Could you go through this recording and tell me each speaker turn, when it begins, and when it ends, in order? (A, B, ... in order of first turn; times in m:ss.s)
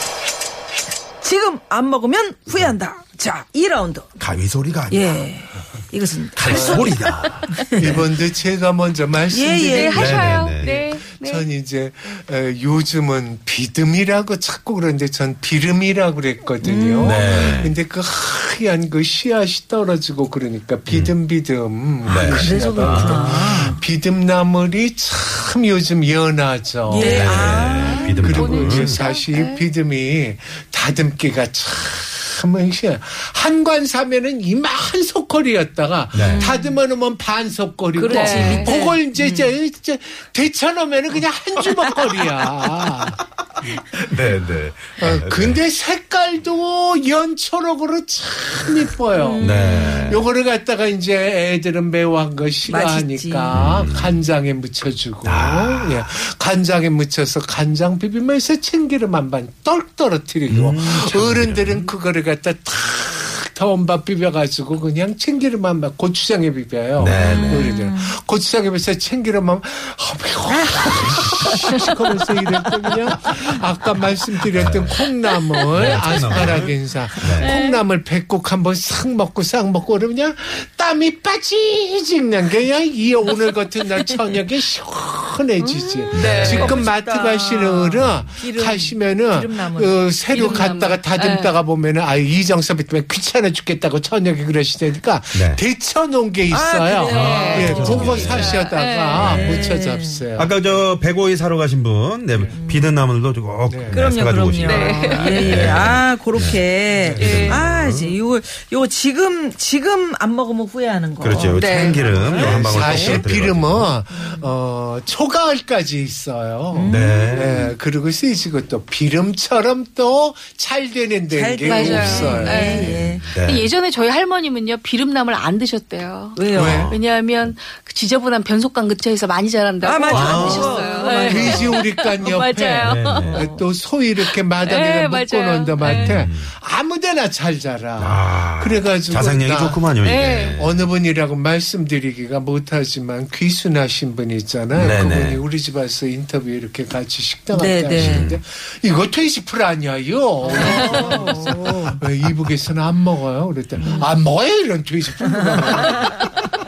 0:01.2-0:04.1 A
0:04.2-0:05.2 B
0:04.9-0:07.0 A
0:06.4-0:08.0 B
0:06.4-0:07.0 C
0:07.5-0:08.0 A
0:07.7-0:44.0 C
0:09.3-0:10.4 A
0:09.7-0:11.5 D
0:09.9-0:10.7 B
0:16.6-0:17.6 A
0:17.0-0:17.8 B
0:20.9-0:21.1 B
0:22.0-0:23.7 B
0:22.1-0:23.8 A
0:26.9-0:28.4 A
0:27.0-0:29.0 B
0:27.0-0:29.6 D
0:36.1-0:36.5 B
0:36.1-0:36.8 A
0:37.9-0:39.5 A
0:38.1-0:38.7 D
0:44.0-0:45.6 B
0:45.0-1:40.6 C
0:49.1-0:50.2 A
0:49.4-0:50.2 B
0:52.6-0:53.7 A
0:53.5-0:54.2 B
0:55.2-0:56.1 B
1:00.5-1:01.9 B
1:07.0-1:07.7 B
1:07.1-1:08.2 A
1:14.5-1:15.0 B
1:15.6-1:16.6 A
1:15.7-1:17.6 B
1:17.3-1:17.8 A
1:23.3-1:24.4 A
1:25.6-1:30.6 A
1:26.1-1:26.8 D
1:26.1-1:26.8 B
1:28.0-1:28.3 B
1:30.3-1:31.5 D
1:35.3-1:35.6 B
1:36.5-1:40.2 A
1:37.1-1:38.6 B
1:37.1-1:39.2 D
1:39.1-1:39.6 B
1:40.4-1:46.6 B
1:42.5-1:42.9 A
1:43.6-1:44.0 C
1:43.9-1:53.3 A
1:44.6-1:45.7 D
1:46.8-1:47.4 C
1:47.2-1:48.1 B
1:47.2-1:47.6 D
1:51.2-1:53.9 B
1:51.5-1:52.0 D
1:51.6-2:03.0 C
1:54.1-1:54.5 A
1:56.7-1:57.7 A
1:56.9-1:57.6 B
2:01.3-2:03.2 A
2:01.6-2:13.4 D
2:02.7-2:03.7 B
2:06.3-2:06.9 A
2:06.5-2:07.0 C
2:06.5-2:07.0 B
2:09.8-2:11.8 A
2:10.1-2:10.8 B
2:11.2-2:19.8 C
2:12.8-2:13.5 B
2:13.2-2:13.6 A
2:14.6-2:16.2 D
2:15.8-2:16.5 B
2:18.0-2:20.9 B
2:20.0-2:20.6 D
2:20.4-2:36.3 C
2:24.7-2:25.4 B
2:27.5-2:28.3 A
2:27.9-2:28.4 B
2:30.4-2:32.0 A
2:30.5-2:31.0 D
2:30.7-2:31.0 B
2:33.8-2:34.0 B
2:33.8-2:34.0 A
2:35.2-2:36.2 A